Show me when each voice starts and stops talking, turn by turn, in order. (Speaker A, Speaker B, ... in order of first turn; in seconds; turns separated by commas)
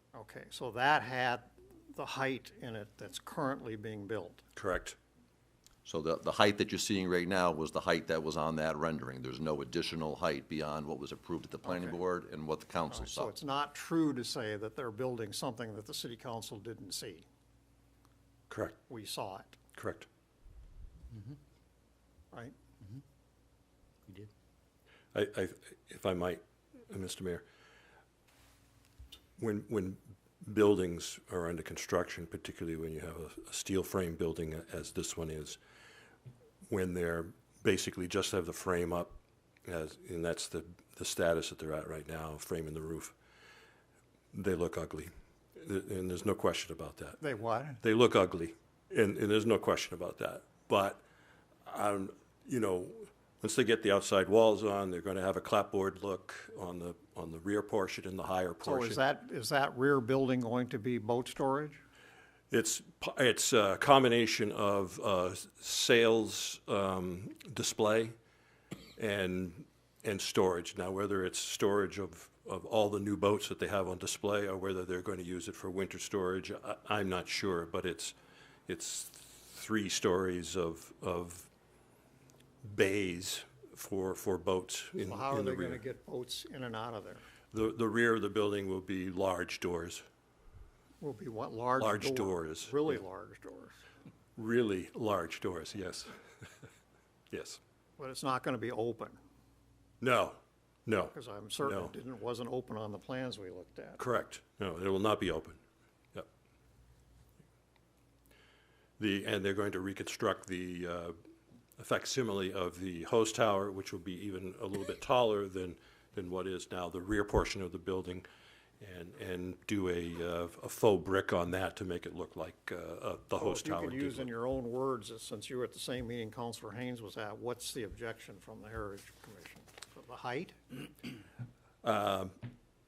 Speaker A: 0.1-4.4, Speaker B: 4.6-5.0, Speaker C: 5.8-13.3, Speaker A: 11.6-12.0, Speaker A: 12.9-17.3, Speaker B: 18.5-18.8, Speaker A: 18.9-19.6, Speaker B: 19.8-20.1, Speaker B: 25.1-27.4, Speaker B: 29.4-35.6, Speaker B: 36.7-39.1, Speaker B: 39.7-43.1, Speaker B: 44.3-47.2, Speaker A: 47.2-47.8, Speaker B: 47.8-51.0, Speaker B: 51.7-59.0, Speaker A: 58.6-61.8, Speaker B: 62.5-68.1, Speaker B: 69.0-78.2, Speaker B: 78.7-81.5, Speaker B: 82.6-85.8, Speaker A: 85.0-87.2, Speaker B: 87.5-90.0, Speaker A: 91.0-93.8, Speaker B: 91.8-92.9, Speaker B: 94.4-96.2, Speaker B: 97.3-97.6, Speaker A: 98.0-99.2, Speaker B: 100.0-101.9, Speaker A: 101.1-104.0, Speaker B: 104.0-105.6, Speaker B: 109.0-111.2, Speaker B: 111.8-118.2, Speaker B: 118.8-124.3, Speaker A: 123.4-130.9, Speaker B: 131.8-132.3